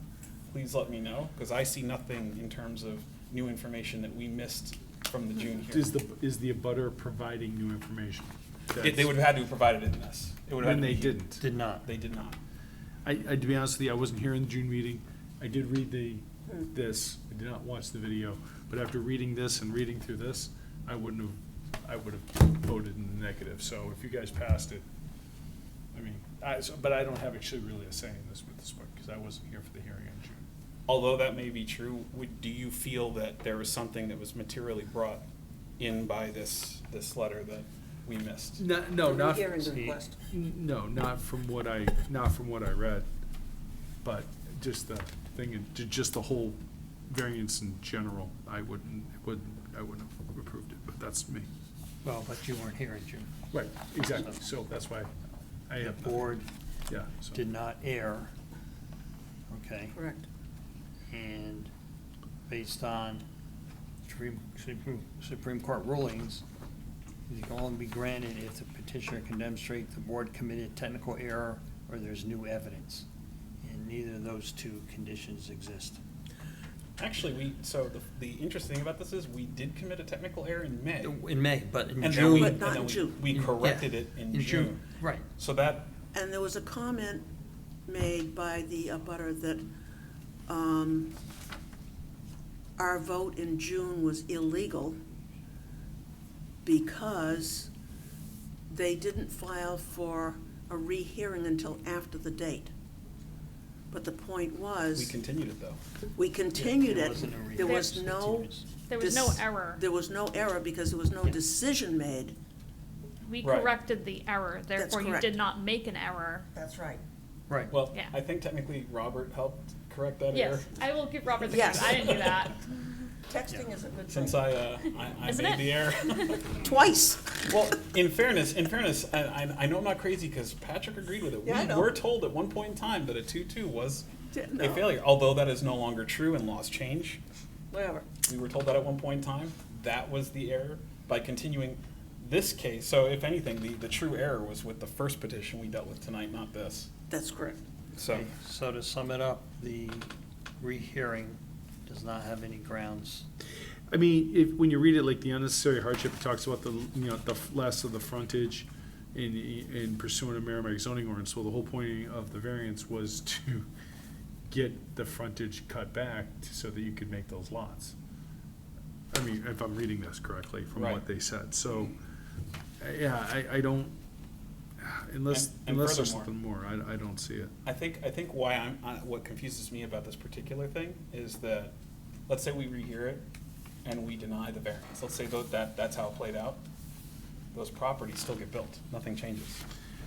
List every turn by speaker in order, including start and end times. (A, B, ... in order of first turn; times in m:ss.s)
0:00.5-0:05.9 A
0:05.7-0:09.1 B
0:08.8-0:11.2 A
0:10.6-0:11.4 B
0:11.4-0:11.8 C
0:11.8-0:12.4 A
0:13.0-0:24.8 B
0:25.9-0:30.4 B
0:30.9-0:35.2 A
0:35.8-0:38.6 A
0:38.6-0:43.0 B
0:39.0-0:40.2 D
0:44.0-0:51.5 B
0:52.0-0:53.3 C
0:53.5-0:55.1 B
0:55.7-0:57.4 B
0:55.8-0:56.4 C
0:57.3-0:58.3 C
0:59.5-1:00.0 C
0:59.9-1:00.3 D
1:01.1-1:01.7 C
1:02.5-1:03.2 C
1:04.0-1:06.4 C
1:07.3-1:13.0 C
1:13.6-1:16.0 C
1:17.0-1:21.2 A
1:21.0-1:22.7 C
1:22.0-1:23.2 D
1:22.0-1:25.9 A
1:23.3-1:25.2 C
1:26.1-1:27.3 D
1:27.9-1:29.6 D
1:30.5-1:31.2 D
1:32.8-1:35.0 D
1:36.6-1:37.7 D
1:38.7-1:42.7 D
1:43.9-1:45.1 D
1:45.0-1:45.8 A
1:46.1-1:52.3 D
1:46.5-1:48.6 C
1:47.6-1:48.0 E
1:48.8-1:49.8 E
1:53.2-1:56.5 E
1:53.4-1:53.7 A
1:54.7-1:55.3 D
1:56.5-1:57.0 D
1:57.7-2:00.8 A
2:00.3-2:02.7 E
2:01.4-2:02.2 D
2:01.5-2:02.4 A
2:03.3-2:04.4 D
2:04.1-2:06.4 A
2:05.2-2:06.4 E
2:06.5-2:07.4 D
2:07.5-2:17.2 A
2:11.4-2:11.9 D
2:14.3-2:14.9 D
2:17.7-2:18.0 D
2:18.2-2:26.9 A
2:27.1-2:27.6 D
2:27.9-2:28.3 A
2:28.1-2:30.1 C
2:30.6-2:33.2 C
2:33.9-2:43.7 B
2:44.5-2:47.9 B
2:49.1-2:52.0 B
2:50.8-2:51.0 A
2:52.8-2:53.9 B
2:54.8-2:57.5 B
2:55.3-2:56.3 A
2:57.6-3:01.7 A
3:02.3-3:03.2 A
3:03.8-3:06.6 A
3:07.5-3:09.6 A